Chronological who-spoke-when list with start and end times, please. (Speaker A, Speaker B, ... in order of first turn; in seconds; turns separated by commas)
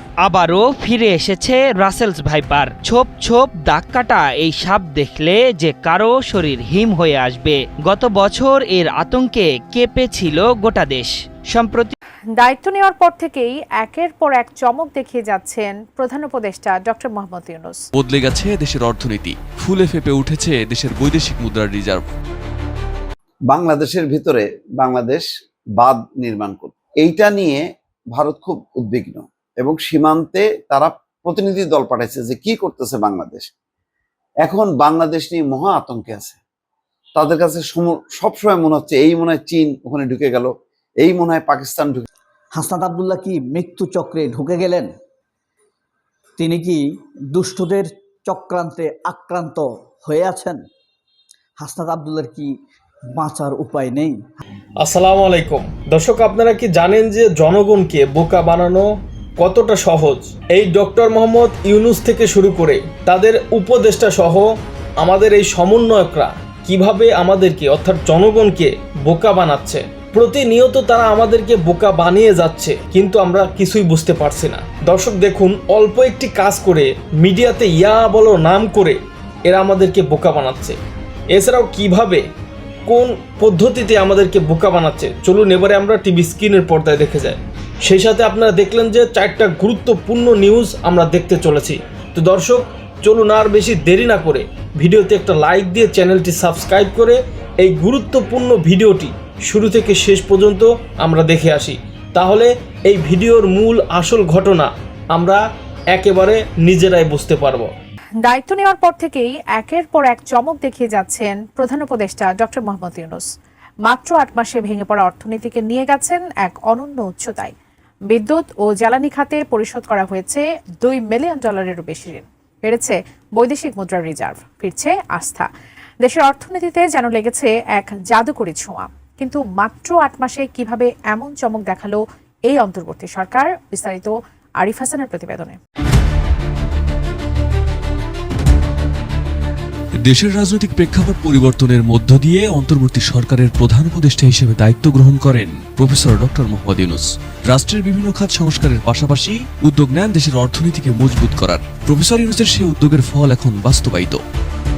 Speaker A: 0.2-11.9, Speaker B: 12.3-17.8, Speaker C: 18.0-22.0, Speaker D: 23.5-25.3, Speaker D: 25.8-27.6, Speaker D: 28.1-33.5, Speaker D: 34.5-36.4, Speaker D: 37.2-40.5, Speaker D: 41.0-42.1, Speaker E: 42.6-44.9, Speaker E: 46.4-46.8, Speaker E: 47.3-50.6, Speaker E: 51.6-52.5, Speaker E: 53.2-54.2, Speaker F: 54.8-58.9, Speaker F: 59.4-64.5, Speaker F: 65.0-80.8, Speaker F: 81.3-82.2, Speaker F: 82.9-105.4, Speaker F: 105.9-107.7, Speaker B: 108.2-113.3, Speaker B: 113.8-117.5, Speaker B: 118.1-125.5, Speaker B: 126.0-135.6, Speaker C: 140.1-154.2